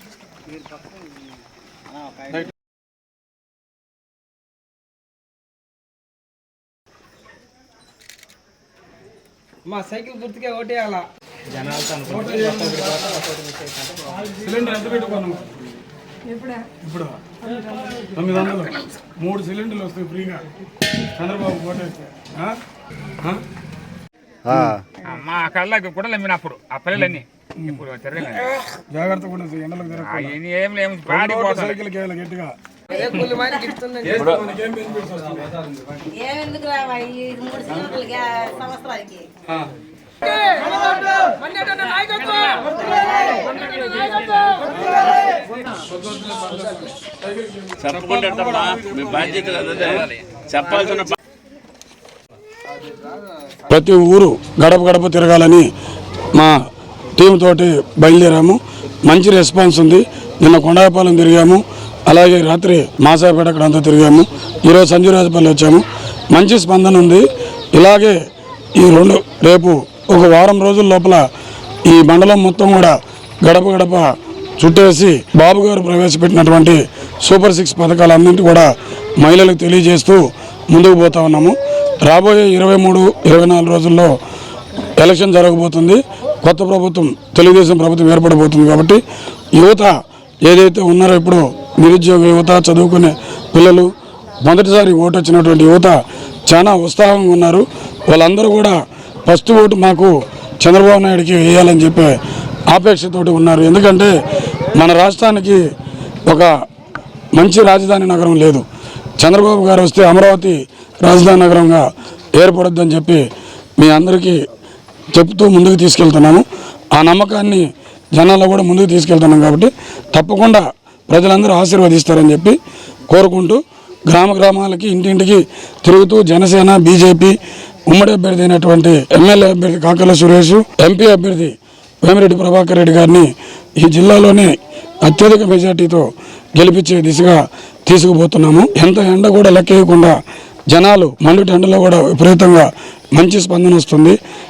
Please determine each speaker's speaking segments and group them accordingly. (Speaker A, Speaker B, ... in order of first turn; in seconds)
Speaker A: 9.7-13.8, 33.2-34.2, 40.3-42.6
Speaker B: 11.9-13.1, 14.3-15.5, 16.8-17.2, 18.1-20.4, 21.2-22.5, 24.5-24.8, 27.6-30.4, 31.1-32.5, 34.0-35.7, 45.9-49.4, 53.7-55.7, 57.2-68.2, 68.8-71.2, 71.9-84.2, 85.0-89.0, 89.5-89.9, 90.5-93.9, 94.4-102.1, 102.7-104.1, 104.7-105.6, 107.3-108.6, 109.2-111.8, 112.3-113.2, 113.8-114.4, 115.1-122.6, 123.1-127.3, 127.9-133.3, 133.8-136.1, 136.6-140.2, 140.7-144.2
Speaker C: 25.1-28.5, 30.0-31.8
Speaker D: 32.9-33.8, 36.1-39.3, 42.7-44.0
Speaker E: 47.8-51.1